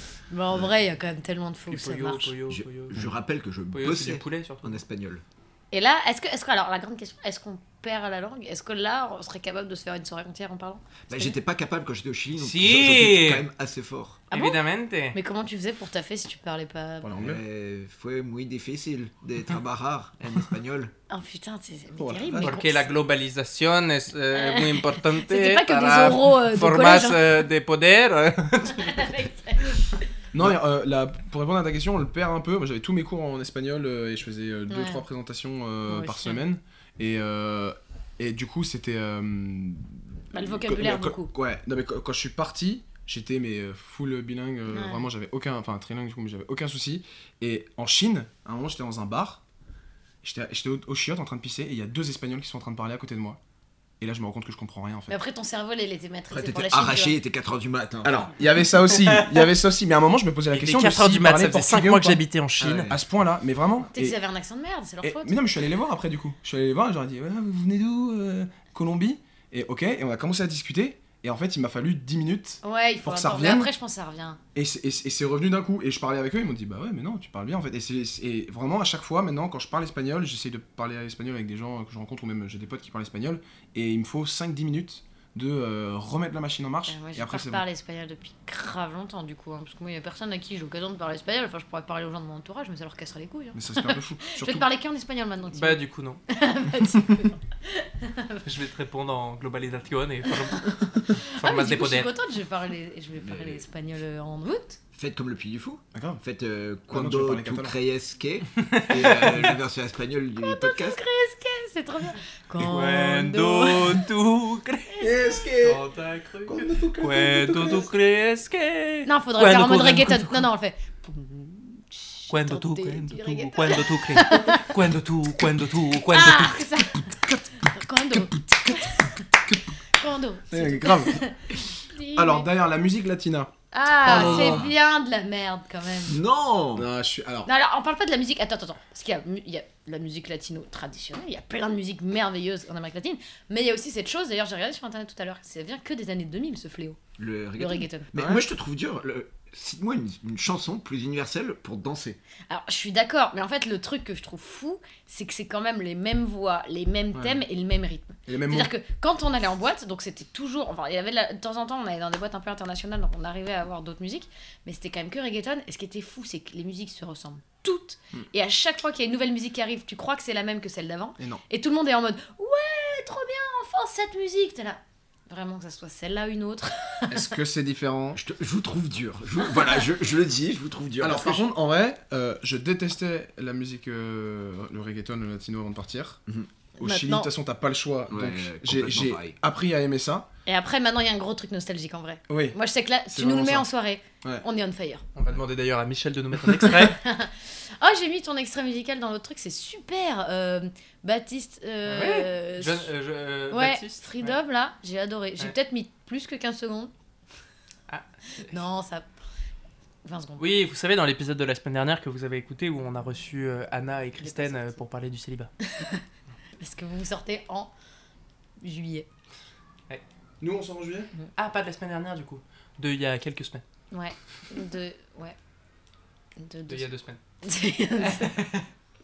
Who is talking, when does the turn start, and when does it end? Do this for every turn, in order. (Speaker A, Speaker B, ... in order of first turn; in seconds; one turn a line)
Speaker A: 0.3-2.3
Speaker B: 1.7-3.1
Speaker C: 2.5-5.2
Speaker B: 3.7-4.8
Speaker A: 5.7-11.4
Speaker C: 11.1-14.2
Speaker B: 12.4-13.4
Speaker A: 14.3-14.6
Speaker B: 14.3-15.2
Speaker A: 15.1-17.1
Speaker D: 17.0-17.4
Speaker C: 17.2-20.9
Speaker A: 21.1-22.9
Speaker D: 22.0-22.6
Speaker B: 22.4-29.2
Speaker A: 24.3-27.4
Speaker A: 28.7-30.0
Speaker D: 30.3-49.4
Speaker A: 34.7-35.0
Speaker A: 35.9-36.4
Speaker A: 40.3-41.3
Speaker A: 44.7-45.1
Speaker D: 50.2-53.4
Speaker D: 54.0-55.2
Speaker A: 55.1-57.2
Speaker C: 56.3-58.3
Speaker D: 58.0-62.2
Speaker B: 59.0-59.5
Speaker B: 60.5-62.9
Speaker C: 62.6-63.0
Speaker D: 62.9-64.2
Speaker A: 63.9-65.4
Speaker D: 65.0-73.7
Speaker A: 72.6-74.4
Speaker D: 74.5-87.6
Speaker A: 86.9-98.5
Speaker D: 93.5-94.7
Speaker B: 95.5-96.2
Speaker B: 98.4-102.1
Speaker A: 100.6-104.8
Speaker C: 103.2-103.6
Speaker C: 104.9-111.0
Speaker D: 105.9-106.2
Speaker D: 106.9-107.8
Speaker B: 108.7-109.5
Speaker A: 110.4-114.0
Speaker B: 112.6-120.5
Speaker D: 115.0-115.8
Speaker C: 115.1-115.4
Speaker D: 116.5-117.9
Speaker A: 119.0-124.7
Speaker B: 122.3-126.6
Speaker A: 126.1-132.5
Speaker D: 127.0-128.9
Speaker D: 129.5-129.7
Speaker D: 130.5-131.3
Speaker D: 132.1-133.5
Speaker A: 133.7-136.2
Speaker D: 134.1-134.7
Speaker C: 134.1-134.7
Speaker C: 136.1-136.9
Speaker D: 136.7-137.5
Speaker A: 137.4-147.0
Speaker C: 147.2-152.2
Speaker A: 147.6-148.1
Speaker D: 148.1-148.4
Speaker A: 152.5-177.3
Speaker D: 157.1-157.4
Speaker D: 158.3-158.7
Speaker D: 177.1-178.2
Speaker C: 178.1-181.4
Speaker D: 181.0-186.2
Speaker A: 186.8-187.3
Speaker D: 186.8-190.3
Speaker C: 188.1-189.4
Speaker A: 190.4-195.0
Speaker D: 192.3-192.6
Speaker D: 193.1-193.7
Speaker B: 195.1-197.0
Speaker A: 196.6-202.9
Speaker B: 201.9-204.4
Speaker A: 203.5-206.9
Speaker B: 207.9-208.6
Speaker A: 208.4-209.1
Speaker A: 210.0-210.4
Speaker B: 210.4-215.5
Speaker A: 214.2-214.8
Speaker A: 215.6-216.0
Speaker A: 216.6-217.7
Speaker A: 218.6-219.1
Speaker D: 220.4-221.1
Speaker B: 221.4-223.6
Speaker A: 223.9-225.4
Speaker A: 226.4-226.9
Speaker B: 226.7-227.2
Speaker A: 227.4-228.4
Speaker B: 228.0-228.7